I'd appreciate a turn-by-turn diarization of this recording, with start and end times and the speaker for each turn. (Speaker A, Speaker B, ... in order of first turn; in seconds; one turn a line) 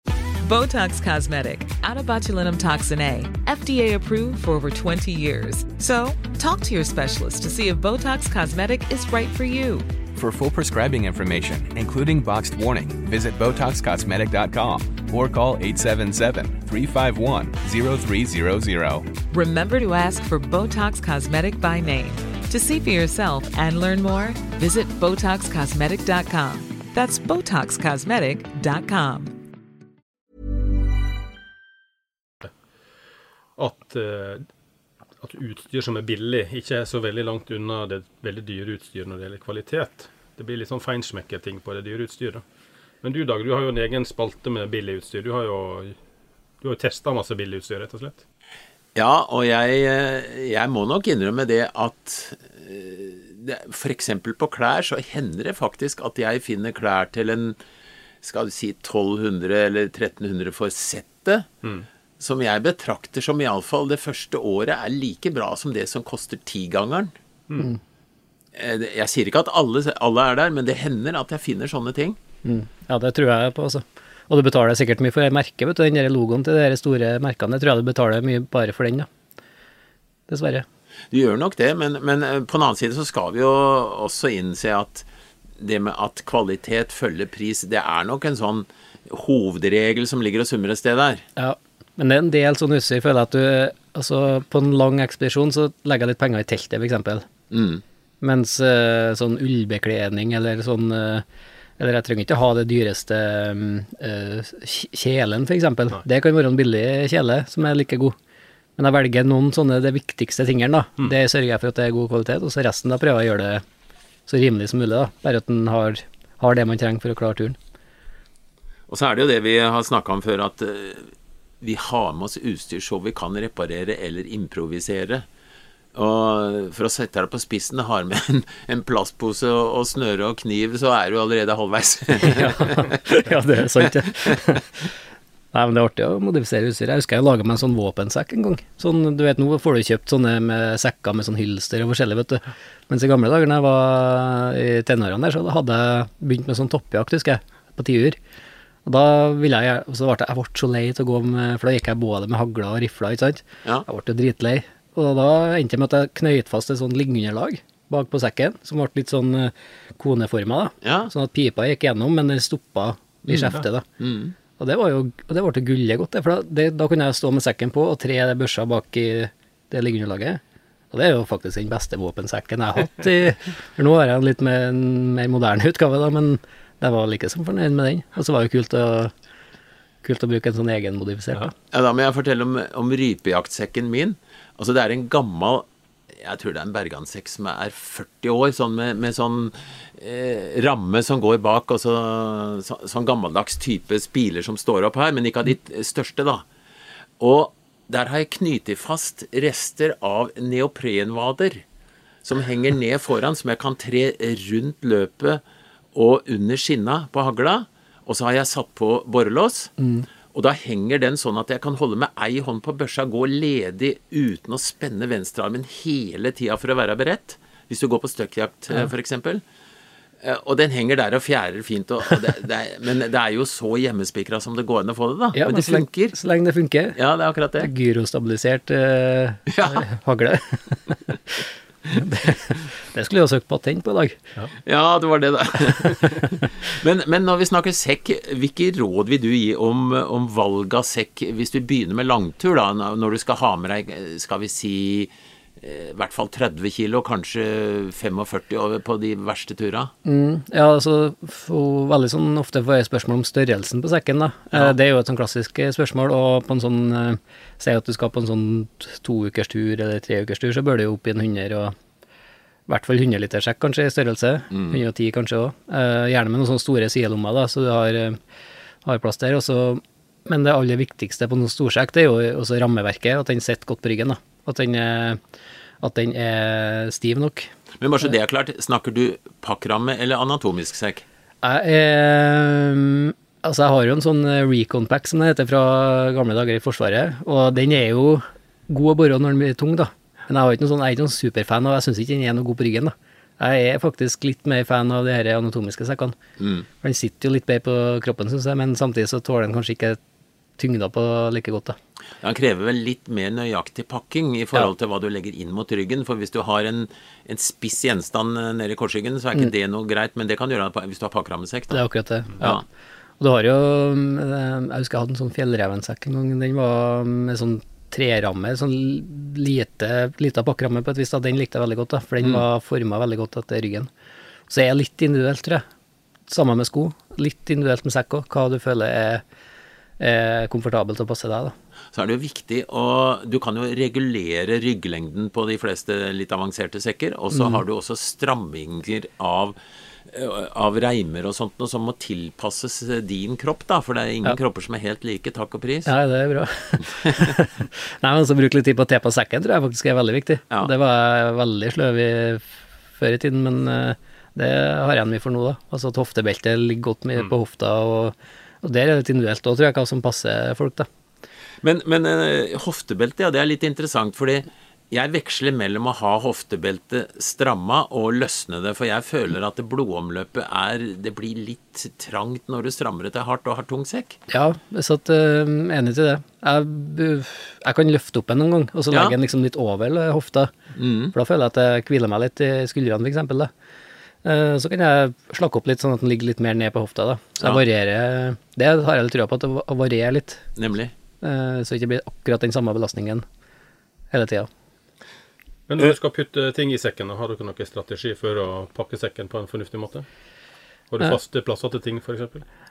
Speaker A: 0.4-9.9
Speaker B: 10.2-19.1
Speaker A: 19.3-29.4
Speaker C: 33.6-34.5
Speaker C: 35.2-42.4
Speaker C: 43.0-46.0
Speaker C: 46.6-48.2
Speaker D: 49.0-57.6
Speaker D: 58.2-61.5
Speaker D: 62.2-67.1
Speaker D: 68.5-72.2
Speaker E: 72.5-79.1
Speaker E: 80.3-80.7
Speaker D: 81.1-85.1
Speaker D: 85.6-91.2
Speaker E: 91.4-97.3
Speaker D: 97.5-97.8
Speaker E: 98.2-101.2
Speaker E: 101.8-108.2
Speaker E: 108.8-113.6
Speaker E: 114.3-117.6
Speaker D: 118.9-125.3
Speaker D: 126.0-133.0
Speaker E: 132.2-134.7
Speaker D: 133.8-134.6
Speaker E: 135.5-148.2
Speaker E: 148.9-163.8
Speaker D: 160.8-161.1
Speaker D: 163.3-164.4
Speaker E: 164.6-170.4
Speaker E: 170.9-179.1
Speaker E: 180.0-181.5
Speaker D: 181.7-196.4
Speaker D: 197.2-201.6
Speaker D: 202.2-205.4
Speaker D: 205.9-209.7
Speaker E: 209.8-210.1
Speaker D: 210.3-219.4
Speaker D: 220.2-226.2
Speaker E: 225.3-227.0
Speaker D: 226.9-227.7
Speaker E: 227.6-231.4
Speaker D: 229.5-229.9
Speaker E: 231.9-234.2
Speaker D: 234.7-249.9
Speaker E: 250.1-261.8
Speaker E: 262.7-268.2
Speaker D: 264.5-264.8
Speaker E: 268.8-275.2
Speaker E: 275.8-277.5
Speaker D: 277.8-281.1
Speaker E: 281.4-296.2
Speaker D: 296.4-296.7
Speaker E: 296.8-300.0
Speaker E: 300.6-301.8
Speaker D: 302.2-311.8
Speaker E: 311.7-312.6
Speaker E: 313.2-323.9
Speaker E: 324.5-325.6
Speaker E: 326.3-329.2
Speaker E: 330.0-331.5
Speaker D: 331.9-339.6
Speaker E: 337.3-337.6
Speaker D: 340.1-345.9
Speaker E: 345.9-360.9
Speaker D: 361.6-374.2
Speaker E: 374.3-380.5
Speaker D: 378.9-379.2
Speaker D: 380.8-381.1
Speaker E: 381.1-383.5
Speaker E: 384.2-390.4
Speaker D: 390.6-390.9
Speaker E: 391.2-393.2
Speaker E: 394.1-394.5
Speaker C: 395.7-400.1
Speaker C: 400.9-402.4